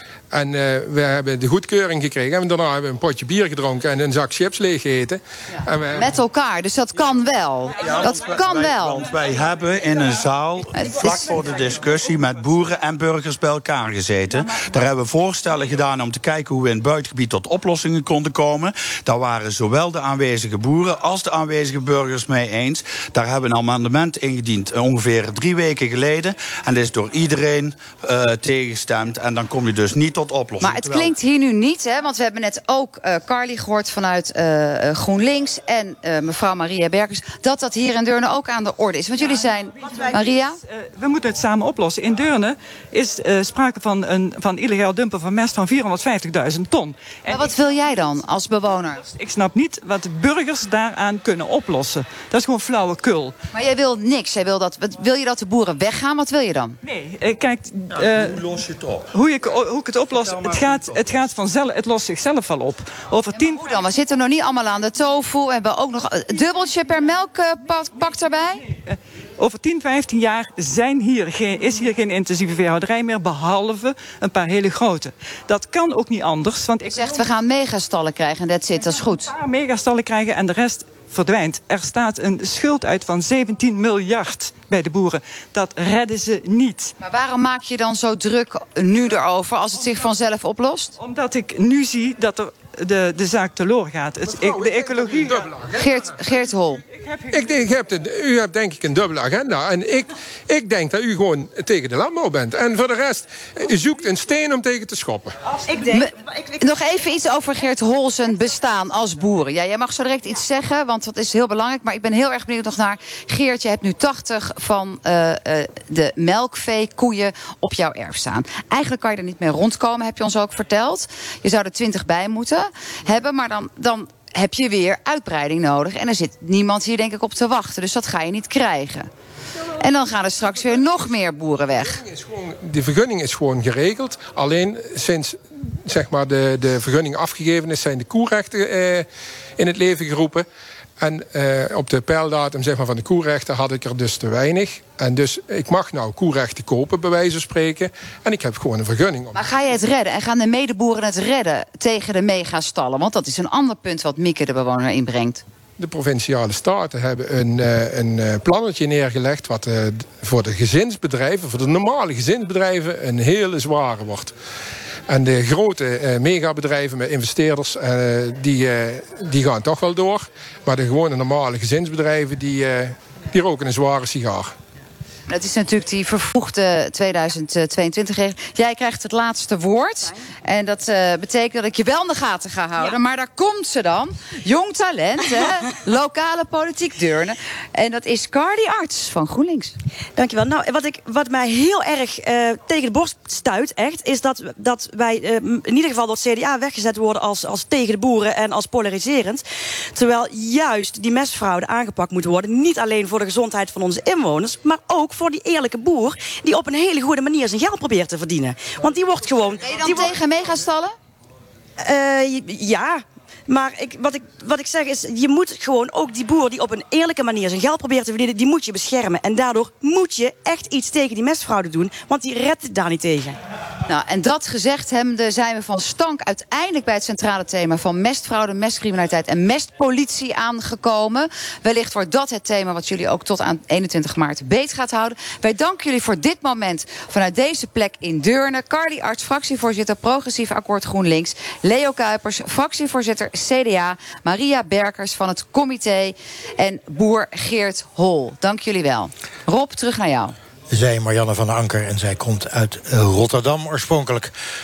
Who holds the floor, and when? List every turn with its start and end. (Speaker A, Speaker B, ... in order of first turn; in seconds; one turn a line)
Speaker A: 0.3-6.0
Speaker B: 5.9-9.0
Speaker C: 7.8-31.1
Speaker B: 10.7-11.2
Speaker B: 30.6-40.6
Speaker D: 39.8-47.5
Speaker B: 47.3-49.0
Speaker D: 49.0-53.3
Speaker B: 53.5-56.8
Speaker D: 56.8-58.5
Speaker D: 59.1-63.8
Speaker B: 63.3-68.6
Speaker D: 68.8-77.3
Speaker B: 76.9-79.3
Speaker D: 79.3-86.9
Speaker B: 87.0-90.9
Speaker D: 91.0-95.5
Speaker A: 94.2-95.9
Speaker B: 95.7-96.8
Speaker D: 96.9-97.7
Speaker A: 97.3-105.3
Speaker B: 105.7-129.1
Speaker B: 129.8-132.0
Speaker A: 131.8-139.1
Speaker A: 139.6-140.4
Speaker A: 141.0-149.4
Speaker B: 149.3-155.4
Speaker A: 155.8-164.3
Speaker A: 165.1-174.5
Speaker B: 175.3-189.7
Speaker E: 190.2-210.1
Speaker B: 209.7-210.9
Speaker E: 211.8-223.4
Speaker B: 223.9-250.3
Speaker F: 250.7-254.3